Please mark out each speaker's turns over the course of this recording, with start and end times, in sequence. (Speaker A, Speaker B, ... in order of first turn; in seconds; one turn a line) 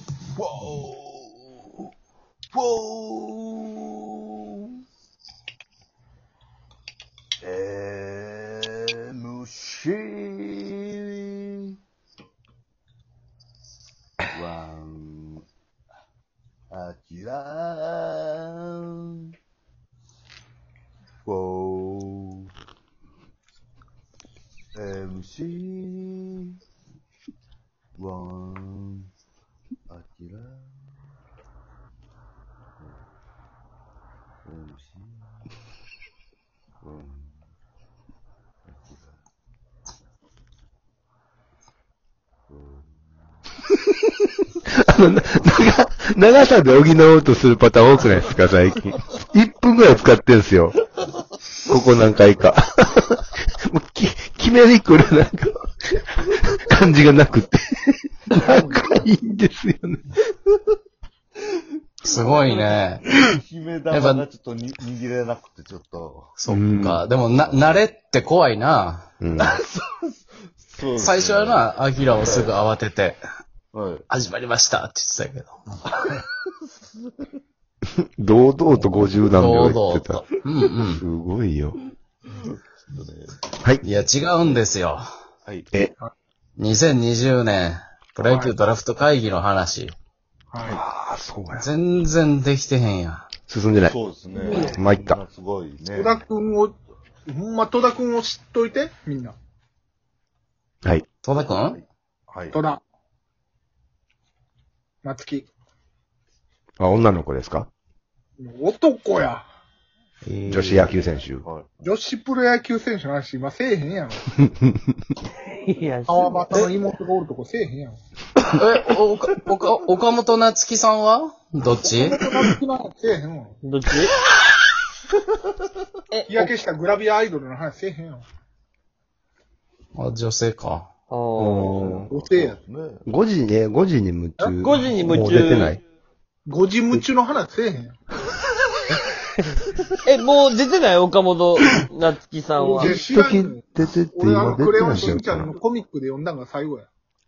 Speaker A: 0.3-1.7
Speaker A: 2.5-4.6
Speaker A: 7.4-11.7
Speaker A: 14.3-15.4
Speaker A: 16.7-19.3
Speaker A: 21.2-22.4
Speaker A: 24.7-26.6
Speaker A: 28.0-29.1
Speaker A: 29.9-30.8
Speaker A: 34.4-35.5
Speaker A: 36.8-37.5
Speaker A: 38.6-39.2
Speaker A: 42.5-43.4
Speaker B: 44.7-50.8
Speaker B: 51.7-60.0
Speaker A: 58.3-58.6
Speaker A: 62.0-66.3
Speaker C: 62.0-63.0
Speaker C: 63.9-64.2
Speaker C: 66.4-69.0
Speaker B: 66.5-67.0
Speaker A: 67.3-67.8
Speaker B: 69.2-69.6
Speaker A: 69.4-71.7
Speaker C: 71.0-73.2
Speaker A: 72.2-72.6
Speaker A: 73.7-74.0
Speaker C: 74.1-75.6
Speaker B: 78.2-80.3
Speaker C: 79.3-81.0
Speaker B: 81.0-81.8
Speaker A: 82.3-83.4
Speaker C: 83.8-85.1
Speaker C: 86.6-89.9
Speaker D: 88.2-88.5
Speaker D: 90.5-90.8
Speaker B: 90.6-91.6
Speaker C: 91.5-93.3
Speaker B: 93.5-94.0
Speaker A: 93.8-96.2
Speaker D: 94.3-94.8
Speaker B: 94.5-95.2
Speaker D: 95.9-96.7
Speaker D: 97.2-99.3
Speaker C: 101.2-101.8
Speaker A: 101.5-102.6
Speaker D: 102.5-102.8
Speaker D: 105.0-105.5
Speaker B: 106.8-107.7
Speaker D: 108.4-109.4
Speaker C: 110.2-111.1
Speaker B: 110.5-111.5
Speaker D: 111.8-114.3
Speaker E: 115.5-116.7
Speaker D: 116.1-118.0
Speaker C: 118.5-122.2
Speaker D: 121.8-123.5
Speaker E: 123.6-124.1
Speaker E: 126.1-126.4
Speaker D: 126.3-128.2
Speaker C: 129.9-130.9
Speaker E: 131.1-131.8
Speaker B: 131.4-132.1
Speaker A: 131.6-133.0
Speaker D: 131.9-132.6
Speaker B: 133.1-135.8
Speaker D: 134.4-135.1
Speaker E: 134.6-135.8
Speaker D: 136.4-137.9
Speaker E: 140.1-142.9
Speaker D: 142.6-146.9
Speaker B: 142.8-145.5